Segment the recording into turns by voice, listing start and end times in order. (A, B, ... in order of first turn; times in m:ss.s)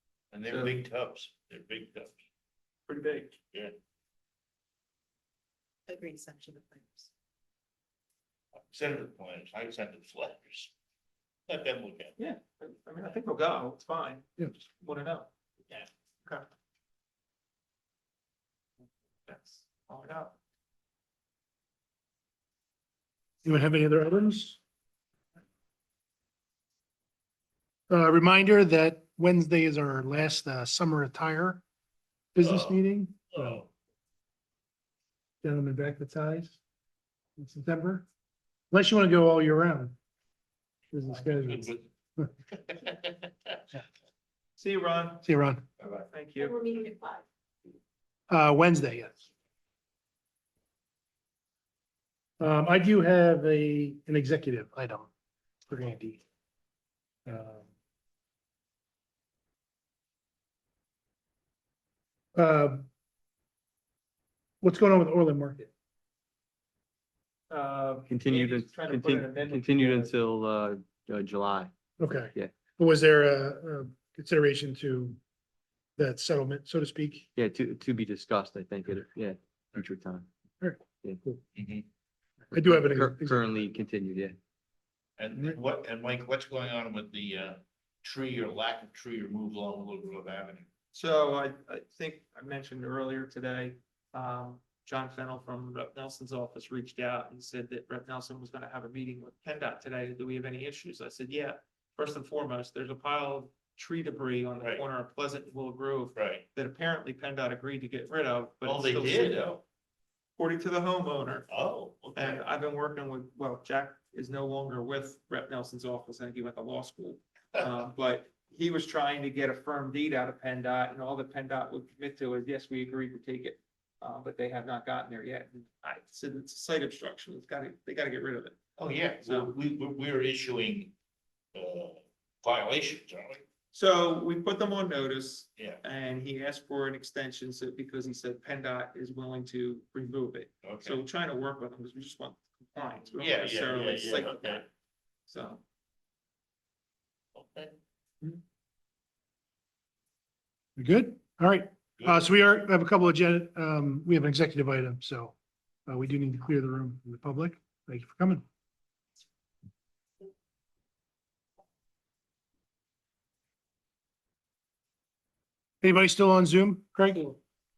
0:00.3-0:02.2 A
0:00.5-0:00.8 B
0:02.9-0:03.4 B
0:05.9-0:07.1 C
0:08.7-0:10.7 A
0:11.5-0:12.2 A
0:12.2-0:15.3 B
0:19.3-0:20.4 B
0:23.4-0:24.6 D
0:27.9-0:31.6 D
0:32.4-0:33.6 D
0:32.4-0:32.8 A
0:33.4-0:33.7 A
0:35.4-0:36.6 D
0:37.4-0:38.1 D
0:38.7-0:40.0 D
0:40.9-0:42.3 D
0:41.4-0:41.8 A
0:42.7-0:43.1 A
0:44.6-0:45.3 B
0:45.2-0:45.6 D
0:46.0-0:46.6 B
0:46.4-0:47.2 C
0:48.3-0:49.3 D
0:52.4-0:55.1 D
0:55.7-0:56.2 D
0:57.3-0:57.7 D
1:02.4-1:02.9 D
1:04.6-1:05.7 D
1:07.5-1:10.1 B
1:08.1-1:11.7 E
1:12.0-1:15.2 D
1:16.0-1:17.3 D
1:17.4-1:20.3 E
1:20.6-1:21.4 D
1:21.6-1:21.9 A
1:22.5-1:24.4 E
1:22.5-1:23.8 D
1:25.2-1:30.7 A
1:30.9-1:49.5 B
1:44.6-1:44.8 A
1:46.2-1:46.4 A
1:48.6-1:49.6 A
1:50.4-1:51.5 B
1:51.5-1:52.5 A
1:52.2-2:08.6 B
2:08.8-2:10.9 A
2:09.2-2:09.5 B
2:11.5-2:13.4 A
2:13.7-2:24.7 B
2:20.6-2:21.0 A
2:23.2-2:24.6 A
2:25.3-2:25.6 B
2:27.4-2:27.8 A
2:30.8-2:35.3 D
2:32.0-2:32.2 A
2:35.9-2:38.4 D
2:45.8-2:47.4 D